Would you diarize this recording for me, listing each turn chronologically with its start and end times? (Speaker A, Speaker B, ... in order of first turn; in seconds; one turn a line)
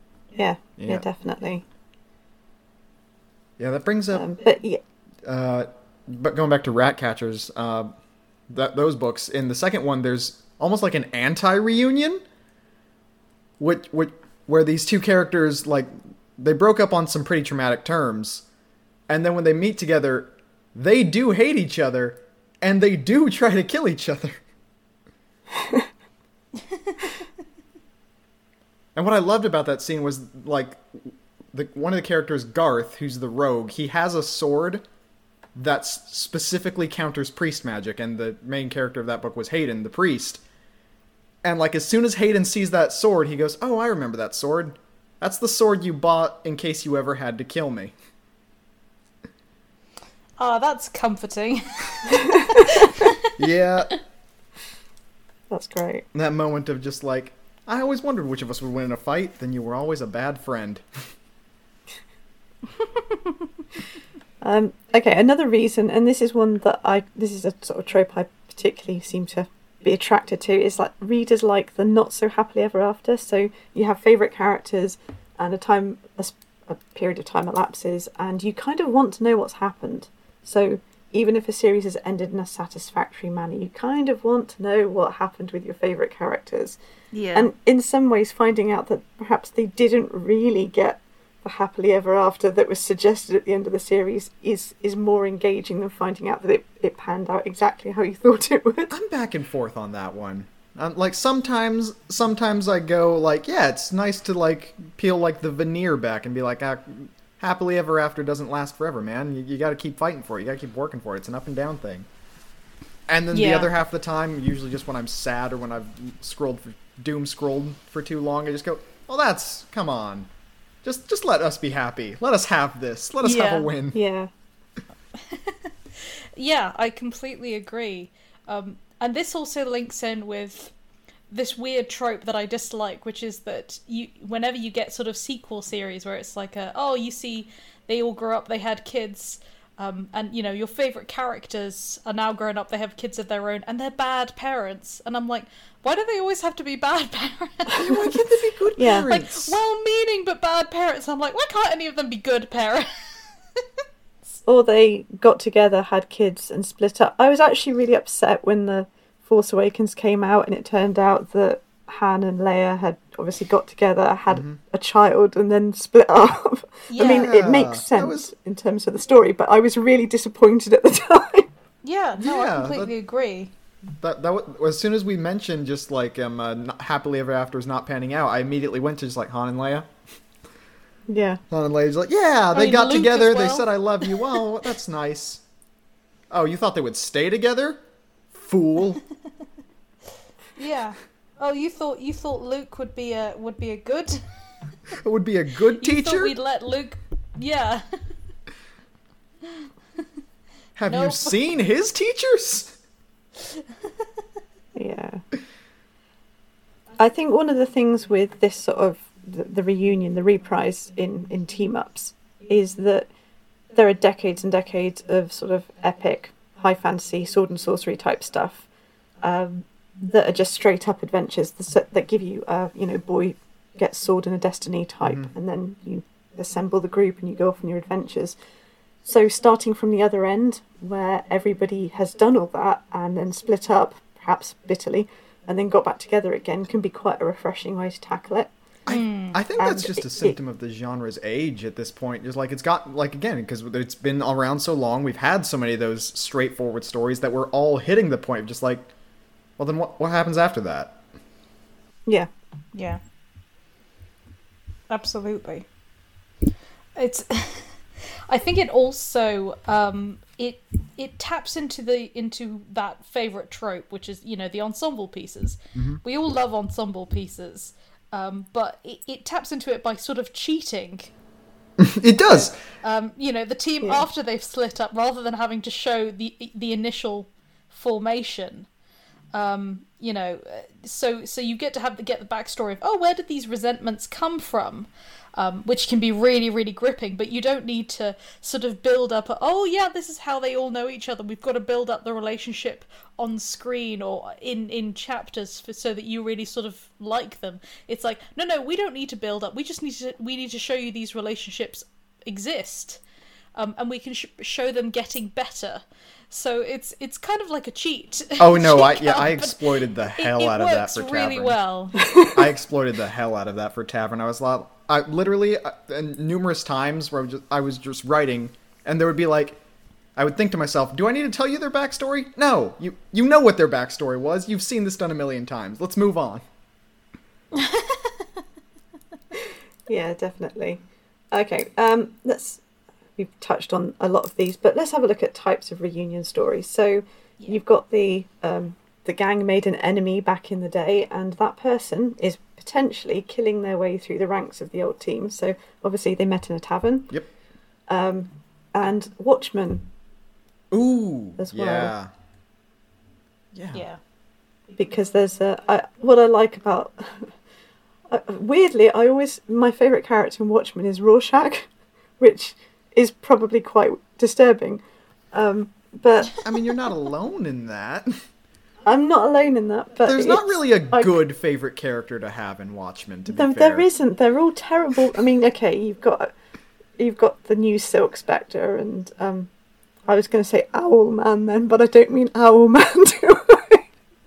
Speaker A: 0.3-1.6
Speaker B: 0.8-1.0
Speaker B: 3.6-4.2
Speaker A: 4.1-4.8
Speaker B: 5.2-7.9
Speaker B: 8.5-12.2
Speaker B: 13.6-18.4
Speaker B: 19.1-24.4
Speaker A: 25.6-25.9
Speaker B: 28.9-30.8
Speaker B: 31.5-34.8
Speaker B: 35.5-40.4
Speaker B: 41.4-47.9
Speaker C: 50.4-53.3
Speaker A: 52.1-52.8
Speaker B: 53.4-53.9
Speaker A: 55.5-56.0
Speaker B: 56.1-61.0
Speaker A: 64.4-86.8
Speaker C: 87.1-87.5
Speaker A: 87.3-98.9
Speaker B: 98.9-112.1
Speaker B: 113.1-120.3
Speaker C: 113.3-113.7
Speaker B: 120.8-124.0
Speaker C: 123.2-123.7
Speaker A: 123.9-124.3
Speaker C: 125.1-130.7
Speaker C: 131.3-148.2
Speaker B: 147.8-149.6
Speaker A: 148.8-149.1
Speaker C: 149.1-152.9
Speaker A: 154.4-171.5
Speaker B: 164.3-164.6
Speaker C: 166.9-167.3
Speaker B: 167.0-168.3
Speaker C: 171.8-173.5
Speaker B: 172.2-172.9
Speaker B: 174.0-179.9
Speaker A: 181.1-181.4
Speaker B: 181.5-185.4
Speaker C: 182.5-184.4
Speaker B: 186.3-187.8
Speaker B: 188.3-189.0
Speaker C: 190.6-194.3
Speaker B: 194.9-196.3
Speaker C: 195.8-198.1
Speaker B: 200.8-202.8
Speaker C: 200.9-201.4
Speaker A: 204.8-205.2
Speaker A: 207.0-213.1
Speaker A: 213.7-218.7
Speaker A: 219.2-228.3
Speaker B: 225.0-225.3
Speaker A: 229.0-238.5
Speaker B: 238.8-248.9
Speaker C: 238.9-239.4
Speaker A: 239.6-240.4
Speaker B: 249.6-250.9
Speaker C: 252.7-253.0
Speaker C: 254.9-255.7
Speaker C: 256.9-271.1
Speaker B: 265.7-266.0
Speaker B: 271.8-272.5
Speaker C: 272.3-278.7
Speaker C: 279.3-303.0
Speaker C: 303.5-312.0
Speaker B: 308.4-311.6
Speaker A: 312.0-312.3
Speaker B: 312.3-319.6
Speaker B: 320.1-326.4
Speaker C: 327.5-328.3
Speaker A: 329.9-332.6
Speaker A: 333.2-347.1
Speaker A: 347.9-349.9
Speaker B: 350.7-352.1
Speaker A: 351.4-351.9
Speaker B: 353.5-353.8
Speaker C: 353.7-354.0
Speaker A: 354.8-357.3
Speaker A: 358.1-361.7
Speaker A: 362.2-366.4
Speaker B: 366.4-368.2
Speaker A: 368.8-371.1
Speaker B: 370.1-373.9
Speaker A: 373.3-376.3
Speaker A: 377.0-379.5
Speaker A: 380.1-383.9